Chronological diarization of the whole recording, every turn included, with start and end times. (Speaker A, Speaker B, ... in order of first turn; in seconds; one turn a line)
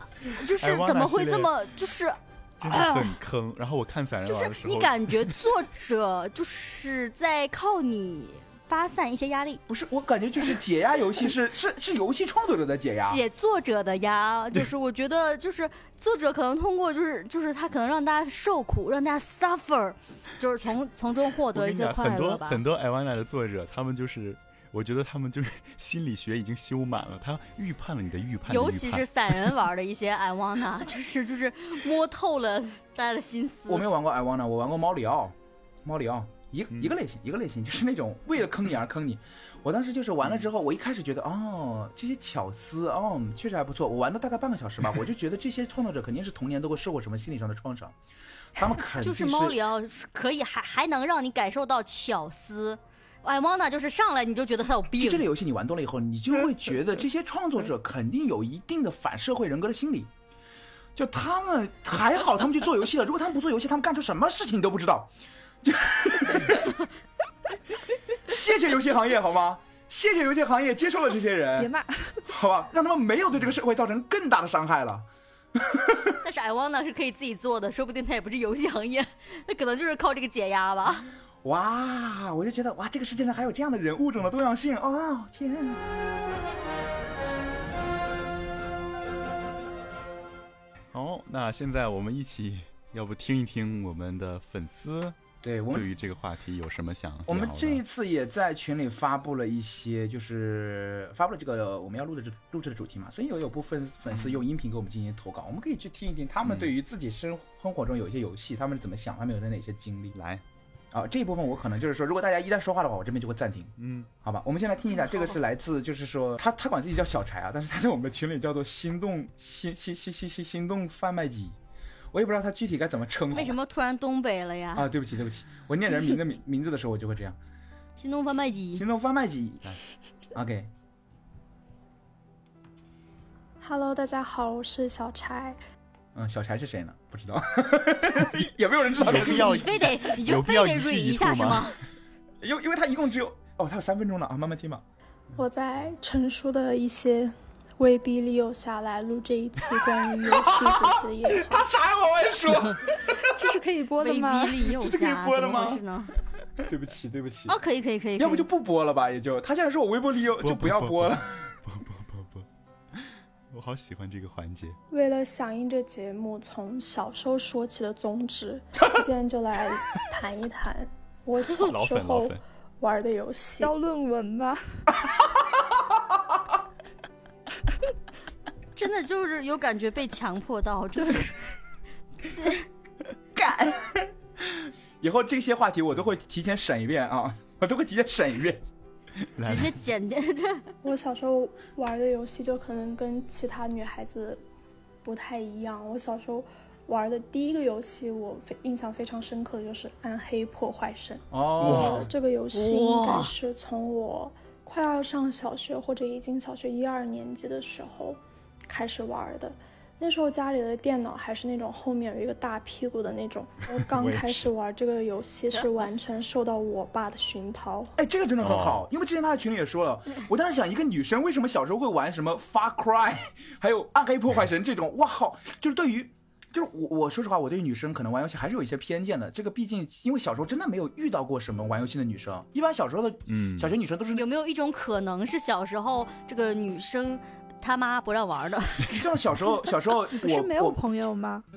Speaker A: 0.2-3.1
Speaker B: 0.3-1.5
Speaker B: 2.6-5.4
Speaker A: 4.2-9.6
Speaker C: 9.7-13.2
Speaker A: 13.0-22.6
Speaker B: 21.5-29.5
Speaker A: 28.5-33.9
Speaker C: 33.7-47.9
Speaker C: 48.5-49.6
Speaker A: 48.9-55.2
Speaker C: 55.0-60.1
Speaker C: 61.0-65.1
Speaker C: 65.6-66.7
Speaker C: 68.2-71.7
Speaker D: 71.6-72.3
Speaker C: 72.3-76.2
Speaker A: 76.2-81.1
Speaker C: 81.4-85.8
Speaker B: 90.9-95.2
Speaker C: 95.4-95.9
Speaker B: 95.7-97.8
Speaker C: 97.3-110.2
Speaker B: 106.4-106.7
Speaker B: 110.1-110.4
Speaker C: 110.9-113.7
Speaker B: 113.8-114.1
Speaker C: 114.2-121.5
Speaker C: 122.1-123.6
Speaker A: 123.3-124.9
Speaker C: 124.7-127.4
Speaker A: 128.0-128.8
Speaker C: 128.7-129.8
Speaker C: 130.3-130.7
Speaker E: 133.6-135.6
Speaker C: 136.1-139.7
Speaker B: 138.9-141.7
Speaker A: 139.1-141.8
Speaker C: 142.4-144.8
Speaker E: 145.3-151.6
Speaker C: 150.2-153.2
Speaker D: 153.2-154.6
Speaker A: 154.0-156.1
Speaker C: 154.7-155.8
Speaker C: 156.6-157.6
Speaker A: 157.5-158.5
Speaker C: 158.2-161.4
Speaker B: 160.4-164.8
Speaker E: 164.9-173.7
Speaker B: 171.6-172.4
Speaker D: 173.6-174.6
Speaker C: 175.0-176.3
Speaker A: 178.8-181.4
Speaker A: 182.3-182.7
Speaker C: 183.3-188.6
Speaker B: 189.4-189.8
Speaker A: 189.4-190.7
Speaker E: 190.8-194.4
Speaker E: 195.0-217.9
Speaker C: 201.3-202.1
Speaker B: 201.6-202.1
Speaker A: 202.5-203.3
Speaker B: 213.8-214.5
Speaker C: 218.0-234.2
Speaker B: 218.4-218.8
Speaker B: 233.3-233.7
Speaker A: 234.1-239.1
Speaker C: 238.9-240.8
Speaker D: 240.2-241.4